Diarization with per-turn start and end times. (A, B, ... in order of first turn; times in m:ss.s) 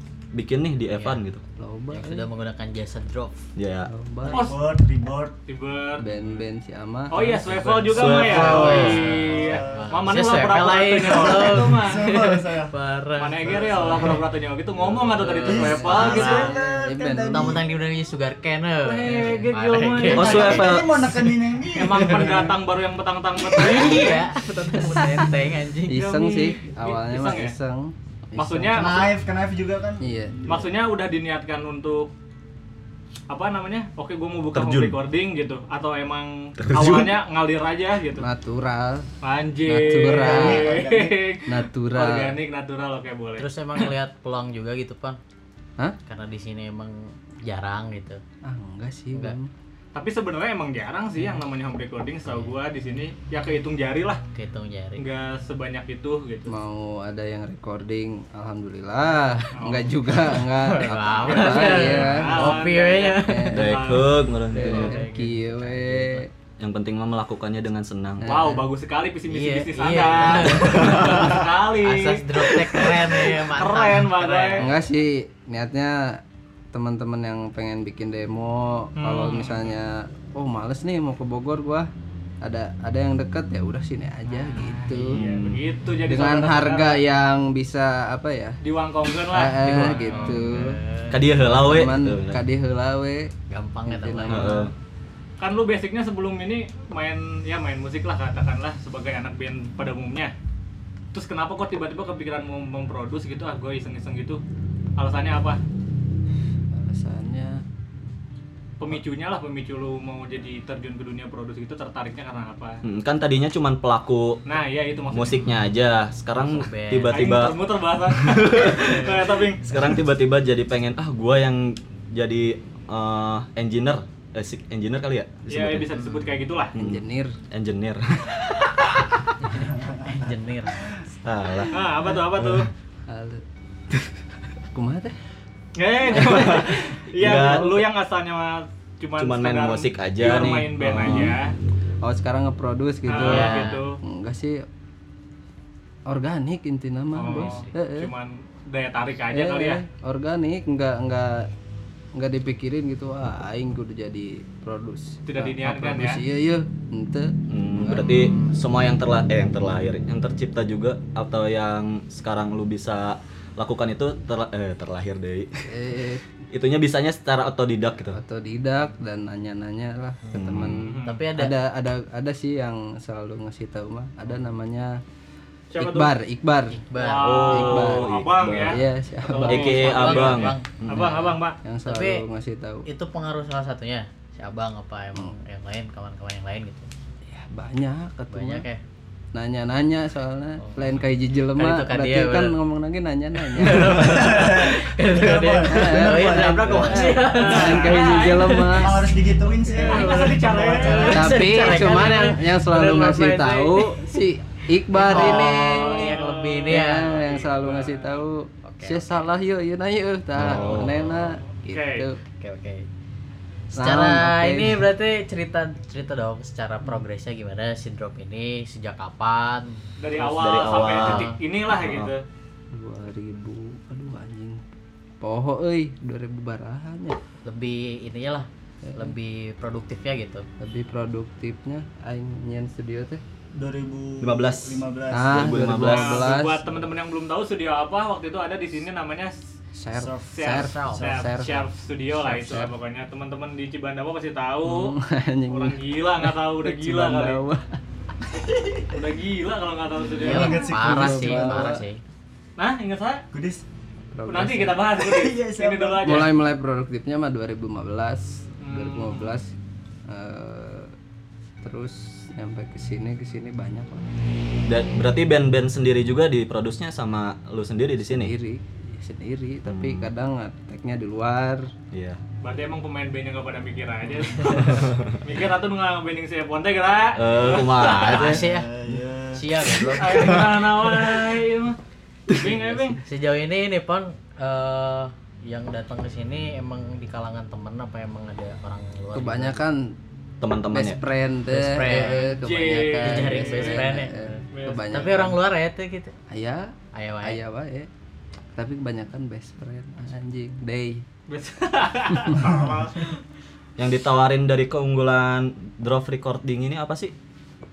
0:00.3-0:01.4 A
0:00.9-0:01.2 B
0:01.6-0:02.3 C
0:01.9-0:03.4 B
0:03.6-0:03.9 A
0:03.9-0:04.5 C
0:04.2-0:05.4 D
0:04.3-0:04.6 E
0:05.5-0:06.1 E
0:06.0-0:07.9 C
0:07.1-0:12.1 E
0:07.9-0:09.0 A
0:08.0-0:14.2 B
0:08.3-0:10.1 D
0:11.1-0:12.7 D
0:13.2-0:16.5 E
0:13.5-0:14.2 D
0:15.1-0:16.5 B
0:15.5-0:17.7 D
0:16.3-0:17.6 C
0:17.3-0:20.8 B
0:18.8-0:20.8 E
0:20.1-0:21.1 A
0:20.2-0:22.6 D
0:21.8-0:25.3 E
0:23.4-0:26.0 B
0:25.9-0:29.1 C
0:25.9-0:27.5 E
0:28.4-0:29.0 E
0:28.7-0:30.7 D
0:30.0-0:30.4 C
0:30.5-0:32.1 E
0:33.3-0:38.2 E
0:34.5-0:35.0 A
0:36.6-0:37.2 A
0:38.2-0:39.1 C
0:39.2-0:43.9 E
0:39.7-0:40.8 C
0:40.1-0:41.2 D
0:41.5-0:42.3 C
0:43.4-0:45.2 B
0:46.1-0:48.2 B
0:48.5-0:49.5 C
0:49.9-0:54.2 E
0:52.2-0:52.5 B
0:54.3-0:55.0 B
0:55.0-0:56.5 E
0:56.5-1:06.3 C
0:59.6-0:59.9 E
1:00.6-1:03.5 B
1:01.2-1:04.2 E
1:03.5-1:05.0 A
1:04.5-1:06.2 B
1:06.6-1:08.4 A
1:08.2-1:08.7 C
1:08.3-1:14.7 E
1:09.3-1:14.8 B
1:10.6-1:11.2 A
1:14.6-1:16.2 C
1:16.7-1:21.9 C
1:19.0-1:19.8 E
1:22.4-1:25.2 C
1:24.3-1:27.0 E
1:25.1-1:25.6 A
1:26.1-1:28.6 C
1:28.6-1:30.6 E
1:29.3-1:30.8 C
1:29.6-1:31.4 B
1:31.1-1:32.4 A
1:31.5-1:33.3 C
1:33.5-1:34.6 B
1:33.9-1:34.7 C
1:34.3-1:34.7 A
1:35.4-1:40.3 E
1:41.1-1:44.4 E
1:45.0-1:45.6 E
1:46.7-1:47.6 C
1:48.8-1:52.8 E
1:52.8-1:54.4 A
1:54.5-1:55.5 E
1:55.1-2:05.8 A
1:56.4-1:57.4 B
1:57.1-1:59.6 E
1:58.8-1:59.3 B
2:05.5-2:05.8 C
2:05.5-2:06.7 E
2:05.9-2:06.3 B
2:06.7-2:09.1 A
2:06.8-2:07.4 C
2:09.5-2:10.9 B
2:11.2-2:11.8 A
2:11.7-2:12.7 E
2:12.4-2:12.7 A
2:13.1-2:13.4 C
2:14.7-2:15.2 C
2:15.8-2:21.6 E
2:16.1-2:17.8 A
2:16.2-2:16.7 C
2:17.2-2:17.8 C
2:19.2-2:21.3 A
2:21.0-2:21.4 C
2:22.0-2:24.7 C
2:23.1-2:24.0 E
2:23.1-2:23.8 B
2:26.1-2:28.1 C
2:27.2-2:29.8 E
2:27.3-2:27.7 B
2:29.3-2:31.5 C
2:32.2-2:38.6 C
2:35.3-2:36.2 E
2:37.5-2:45.6 A
2:45.7-2:46.3 C
2:46.5-2:48.2 A
2:48.1-2:55.0 C
2:50.3-2:50.9 A
2:50.8-2:51.3 E
2:51.0-2:51.5 B
2:55.7-2:56.1 E
2:55.8-2:56.8 C
2:56.9-2:57.5 B
2:56.9-3:01.6 E
2:57.2-2:58.8 A
2:57.5-2:59.8 C
2:59.5-3:01.1 A
2:59.5-3:02.2 B
3:01.6-3:02.9 C
3:02.9-3:06.9 B
3:07.3-3:08.7 C
3:08.3-3:08.8 B
3:09.3-3:14.3 C
3:10.6-3:11.0 B
3:11.6-3:12.6 B
3:13.4-3:18.8 B
3:14.0-3:17.1 D
3:15.6-3:19.0 C
3:17.2-3:18.7 E
3:18.8-3:21.4 D
3:19.8-3:20.3 B
3:19.8-3:21.4 E
3:20.8-3:24.1 B
3:21.1-3:26.1 C
3:24.9-3:27.1 B
3:25.1-3:28.1 E
3:26.7-3:32.2 C
3:28.6-3:29.2 B
3:30.4-3:31.1 A
3:30.4-3:31.2 B
3:31.7-3:32.1 E
3:32.4-3:32.9 B
3:33.7-3:34.8 C
3:33.8-3:41.4 B
3:40.0-3:42.2 E
3:40.2-3:42.1 A
3:42.7-3:44.6 C
3:45.2-3:47.2 C
3:47.4-3:50.5 B
3:48.8-3:49.1 C
3:50.6-3:53.2 C
3:53.6-3:55.6 D
3:54.2-3:56.3 A
3:55.1-3:56.8 C
3:55.8-3:59.4 E
3:59.8-4:01.6 C
3:59.9-4:00.5 D
4:00.4-4:05.0 E
4:00.6-4:01.5 B
4:02.2-4:02.7 C
4:04.6-4:07.7 C
4:05.5-4:07.4 E
4:08.5-4:08.8 D
4:08.9-4:10.7 E
4:10.2-4:12.0 B
4:10.2-4:11.6 D
4:10.5-4:11.8 C
4:12.6-4:13.2 E
4:13.3-4:13.6 D
4:14.1-4:14.8 C
4:14.3-4:16.3 E
4:15.0-4:16.2 D
4:16.0-4:19.5 C
4:18.6-4:19.4 E
4:20.1-4:20.9 C
4:21.6-4:24.1 C
4:24.7-4:28.3 A
4:28.1-4:31.7 C
4:29.7-4:30.1 A
4:31.9-4:32.2 A
4:32.4-4:38.2 E
4:34.3-4:34.5 B
4:34.5-4:35.2 A
4:37.2-4:38.5 A
4:37.6-4:38.7 B
4:38.3-4:39.5 D
4:39.3-4:40.7 B
4:39.9-4:41.8 E
4:40.0-4:40.6 A
4:42.3-4:43.0 E
4:43.0-4:49.6 B
4:49.1-4:50.0 C
4:50.4-4:51.0 A
4:50.7-4:55.4 C
4:51.5-4:56.2 B
4:51.9-4:54.0 E
4:54.5-4:55.0 E
4:56.3-4:56.7 C
4:56.9-4:57.4 B
4:57.2-4:57.9 C
4:58.6-5:01.0 C
5:01.3-5:03.2 E
5:02.4-5:02.9 D
5:03.8-5:07.1 A